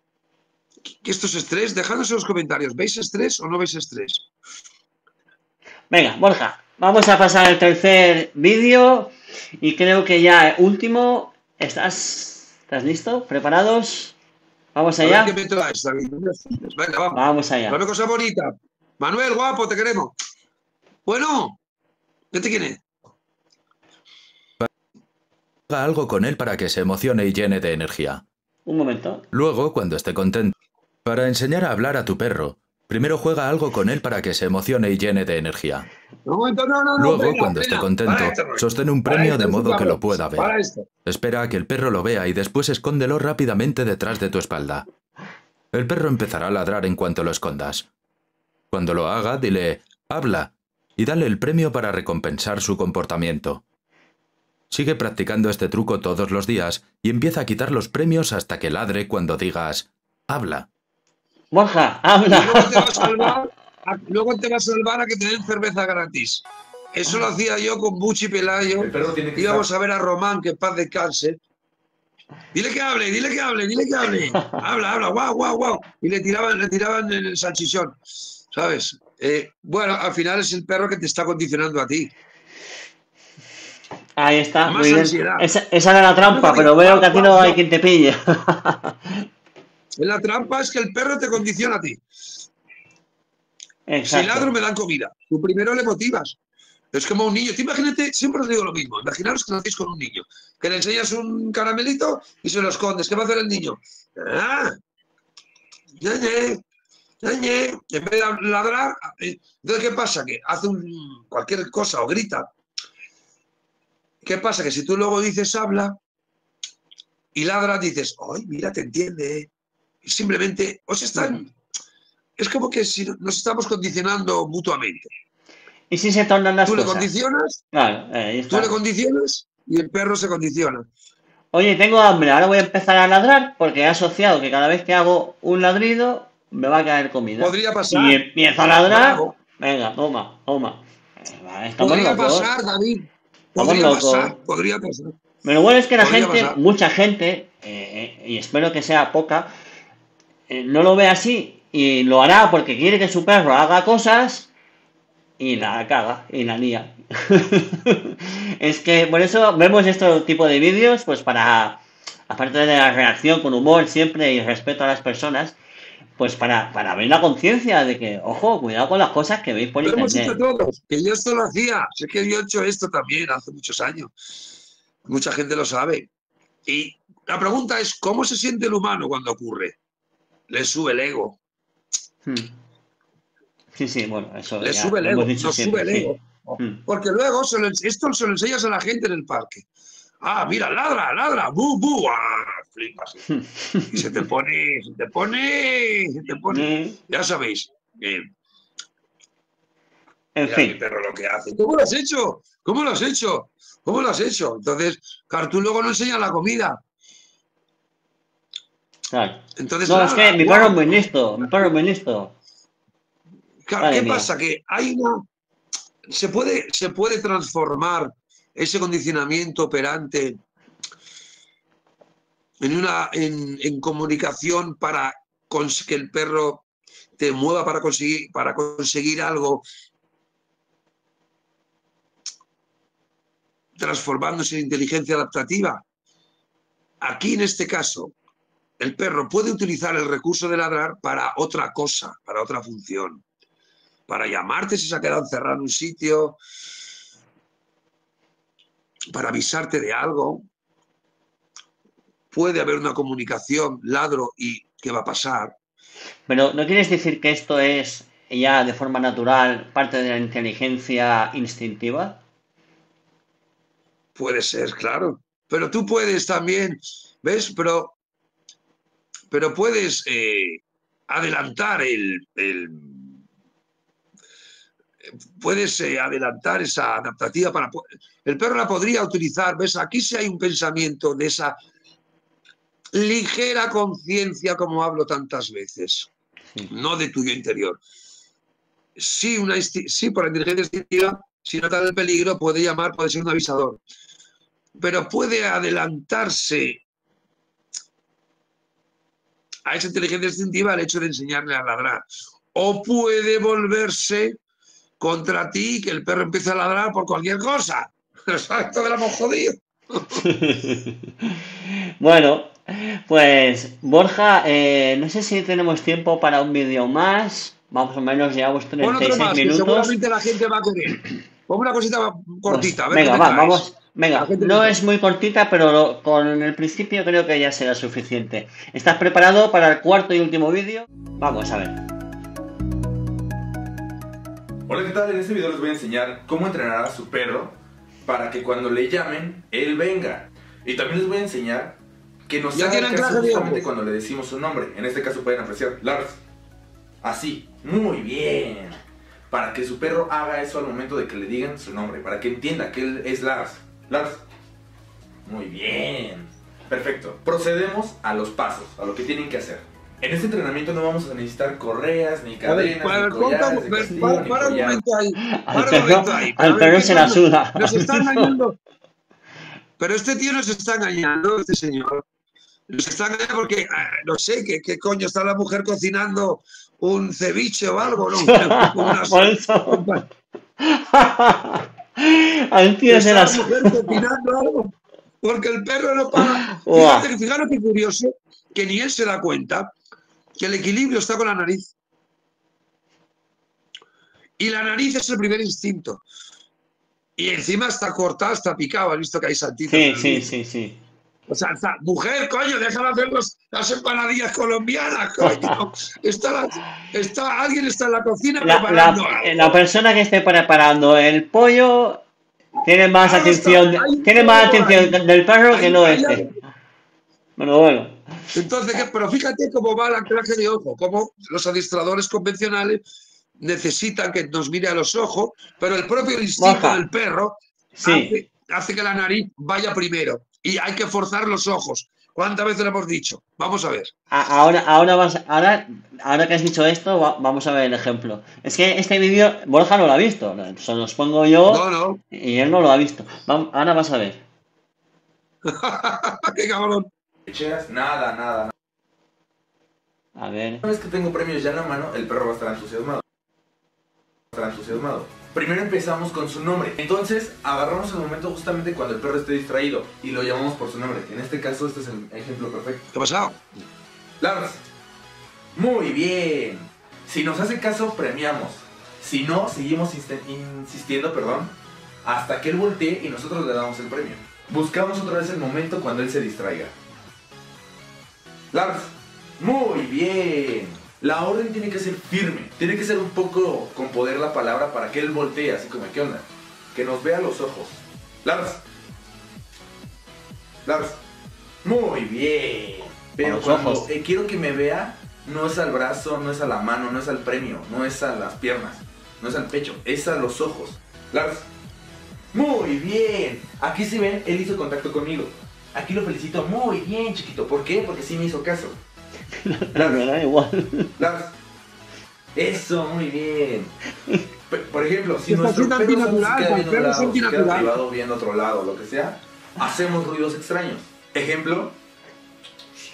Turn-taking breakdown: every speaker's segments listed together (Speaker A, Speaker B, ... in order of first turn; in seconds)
Speaker A: 1.0-4.2, 15.0-20.1, 21.1-21.6, 22.3-22.8, 36.2-40.9, 62.3-71.4, 72.5-78.0, 78.5-82.1, 84.7-85.5, 86.2-87.6, 90.0-92.0, 94.0-96.4, 96.9-104.8, 106.0-106.6, 107.2-112.5, 114.2-116.0, 117.3-119.5, 120.0-121.5, 122.4-125.1, 126.7-127.6, 128.5-130.9, 137.4-138.2, 138.7-139.4, 141.8-145.1, 146.0-146.6, 169.8-174.1, 175.1-176.1, 176.7-179.8, 180.5-181.4, 184.6-189.7, 190.2-193.2, 193.9-198.3, 200.4-206.8, 209.6-211.7, 213.7-215.2, 216.1-220.4, 222.6-226.6, 227.2-229.6, 233.8-235.8, 237.0-238.1, 238.8-243.2, 244.1-246.4, 249.1-250.4, 252.3-255.5, 264.1-267.9, 269.3-273.2, 275.4-281.6, 282.9-286.1, 286.7-287.8, 288.9-293.8, 294.8-296.8, 299.6-304.4, 305.0-310.2, 318.8-324.7, 342.5-343.7, 362.4-368.6, 369.8-372.0, 372.7-380.0, 382.9-389.7, 390.4-391.7, 394.4-396.0, 397.2-400.3, 401.3-409.6, 413.0-414.9, 415.5-416.3, 418.3-422.8, 423.4-433.9, 441.5-442.0, 445.4-446.9, 462.9-463.4, 515.2-517.7
Speaker B: 5.9-14.1, 14.7-15.3, 17.1-17.8, 28.6-29.2, 61.5-63.3, 84.2-89.2, 93.9-94.5, 125.9-127.1, 127.7-128.8, 131.5-142.5, 143.6-144.3, 145.4-149.5, 150.5-154.5, 155.4-165.6, 166.2-170.4, 182.2-182.5, 183.7-186.8, 193.3-194.0, 196.5-197.0, 200.3-200.8, 209.1-212.3, 213.8-214.3, 256.3-262.2, 310.1-311.4, 312.0-319.9, 322.4-331.8, 363.9-364.3, 365.2-368.3, 378.3-379.8, 380.6-384.0, 386.1-387.1, 399.7-400.8, 408.4-412.0, 412.6-416.2, 417.4-418.0, 426.4-426.8, 427.8-428.1, 434.1-444.2, 450.1-450.6, 493.2-493.8, 509.4-510.9
Speaker C: 25.7-28.2, 29.3-30.5, 31.0-35.9, 37.0-40.5, 41.0-44.9, 45.7-47.9, 48.7-53.6, 54.7-60.7
Speaker D: 68.8-69.7, 334.7-346.2, 347.0-348.8, 349.3-354.2, 355.2-364.8, 447.3-448.5, 450.6-453.0, 454.3-462.9, 464.2-464.6, 465.5-476.7, 478.5-488.6, 490.6-491.0, 491.6-501.5, 502.3-508.8, 509.7-510.0, 511.0-511.3, 512.3-513.7, 514.5-521.7